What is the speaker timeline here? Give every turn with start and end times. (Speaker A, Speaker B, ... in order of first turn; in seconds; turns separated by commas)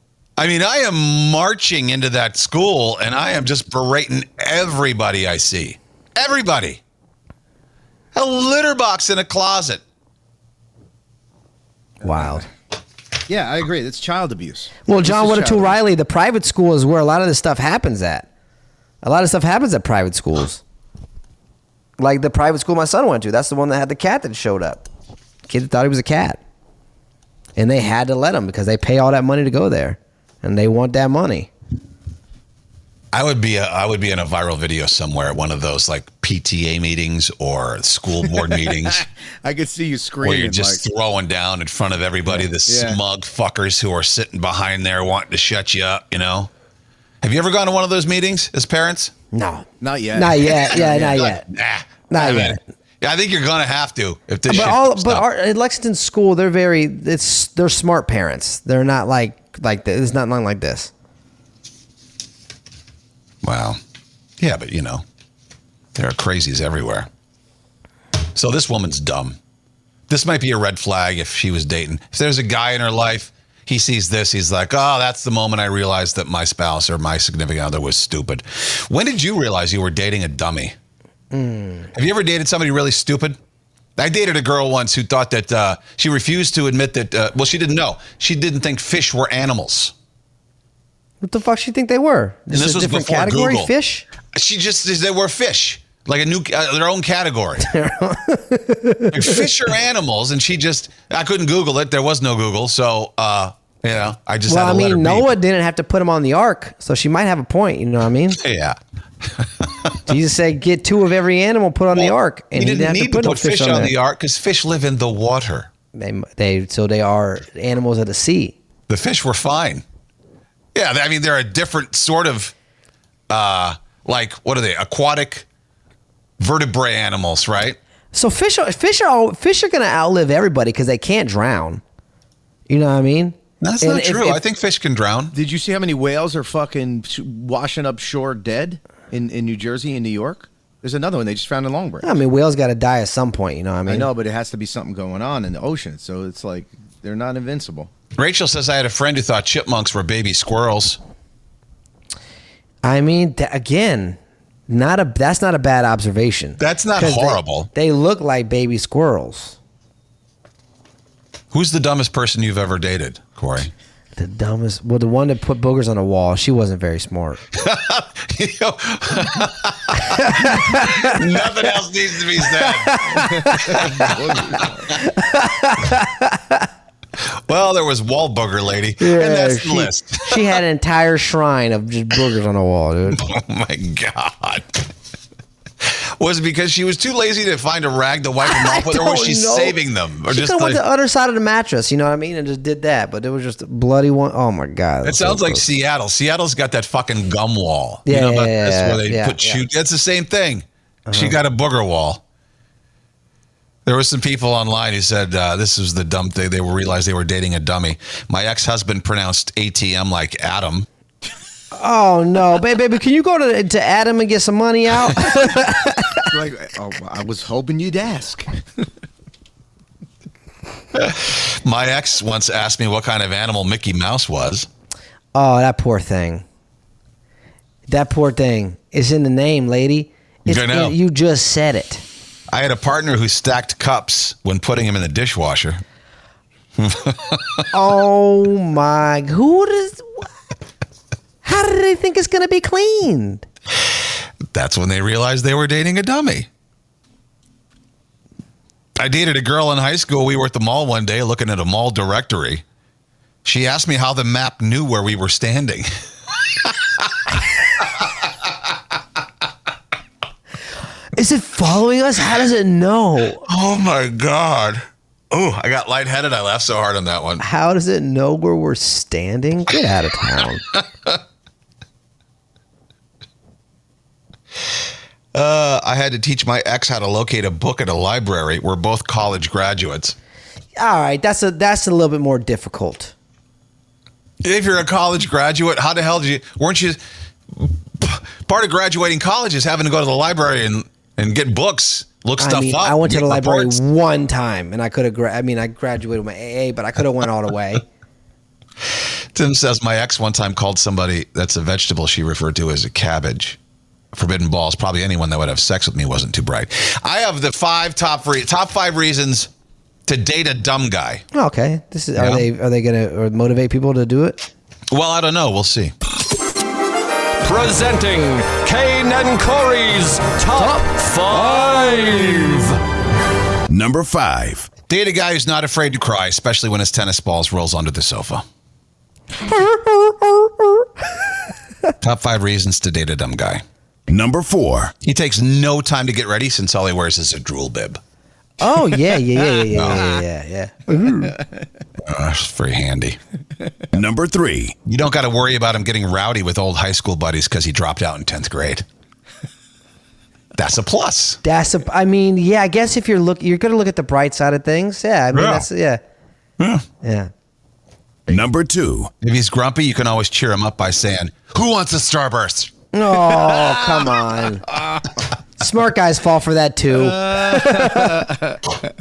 Speaker A: 0.4-6.8, Speaker A: 8.1-9.8, Speaker B: 12.0-12.4, Speaker C: 12.0-12.5, Speaker B: 13.3-15.8, Speaker C: 14.9-18.3, Speaker C: 19.0-20.6, Speaker C: 22.0-24.9, Speaker C: 25.5-26.4, Speaker C: 27.6-31.5, Speaker A: 33.1-39.0, Speaker B: 38.6-40.8, Speaker A: 40.2-46.5, Speaker B: 42.3-43.0, Speaker A: 47.2-49.1, Speaker C: 49.3-51.5, Speaker B: 49.8-51.2, Speaker A: 50.6-55.2, Speaker C: 52.1-52.6, Speaker C: 54.5-60.9, Speaker A: 63.4-63.8, Speaker A: 64.4-65.0, Speaker A: 66.0-67.1, Speaker A: 68.3-69.4, Speaker A: 70.1-80.8, Speaker C: 81.3-81.9, Speaker A: 81.9-83.4, Speaker A: 84.0-89.9, Speaker C: 91.2-94.0, Speaker A: 92.5-93.7, Speaker A: 94.3-97.7, Speaker C: 97.6-99.5, Speaker A: 99.1-105.3, Speaker C: 104.5-108.4, Speaker A: 108.3-108.8, Speaker A: 109.3-110.0, Speaker C: 110.1-113.9, Speaker A: 111.9-115.7, Speaker C: 115.9-118.6, Speaker A: 118.9-119.8, Speaker A: 120.7-122.5, Speaker A: 123.3-125.5, Speaker A: 126.4-127.8, Speaker C: 128.1-131.8, Speaker C: 132.7-134.4, Speaker A: 133.6-135.3, Speaker B: 135.3-142.2, Speaker C: 142.0-144.1, Speaker B: 143.9-147.9, Speaker A: 148.2-151.0, Speaker C: 152.8-159.6, Speaker A: 156.6-157.7, Speaker A: 161.5-163.7, Speaker C: 164.2-167.4, Speaker A: 167.5-173.1, Speaker C: 170.2-171.2, Speaker C: 172.6-174.1, Speaker B: 173.1-174.9, Speaker C: 175.0-176.7, Speaker A: 177.2-180.6, Speaker C: 179.0-183.2, Speaker A: 183.1-184.9, Speaker A: 185.8-190.8, Speaker C: 188.4-189.8, Speaker C: 190.3-195.7, Speaker A: 195.0-202.2, Speaker C: 198.1-199.6, Speaker C: 201.1-201.4, Speaker A: 203.9-210.9, Speaker C: 211.8-216.3, Speaker B: 216.3-218.5, Speaker A: 220.9-224.7, Speaker C: 225.3-226.4, Speaker C: 227.9-232.0, Speaker A: 230.5-231.0, Speaker A: 232.5-235.8, Speaker A: 236.8-237.7, Speaker C: 237.7-240.3, Speaker C: 241.4-243.5, Speaker A: 244.5-246.5, Speaker A: 249.0-252.6, Speaker A: 253.4-255.9, Speaker A: 256.5-257.1, Speaker A: 257.8-258.2, Speaker C: 261.2-263.4, Speaker A: 263.4-267.4, Speaker C: 267.4-270.6, Speaker A: 275.3-280.1, Speaker C: 280.8-283.1, Speaker A: 284.4-287.0, Speaker A: 287.5-293.8, Speaker C: 292.4-297.8, Speaker A: 299.3-303.6, Speaker A: 304.1-309.5, Speaker A: 310.1-311.2, Speaker C: 311.3-314.5, Speaker A: 312.2-312.5, Speaker A: 314.9-315.9, Speaker D: 317.4-322.8, Speaker E: 323.7-324.7, Speaker A: 324.9-328.4, Speaker C: 329.4-330.9, Speaker A: 332.0-333.6, Speaker E: 334.1-334.9, Speaker A: 335.0-338.0, Speaker C: 338.6-341.4, Speaker B: 339.6-340.0, Speaker A: 339.7-340.1, Speaker B: 341.2-341.7, Speaker A: 342.0-343.2, Speaker E: 343.9-344.8, Speaker A: 344.9-348.9, Speaker A: 350.6-351.4, Speaker C: 351.4-356.0, Speaker A: 355.3-355.7, Speaker C: 357.0-357.3, Speaker E: 358.3-359.1, Speaker A: 359.2-362.7, Speaker C: 362.9-364.7, Speaker C: 365.6-368.2, Speaker B: 366.9-368.8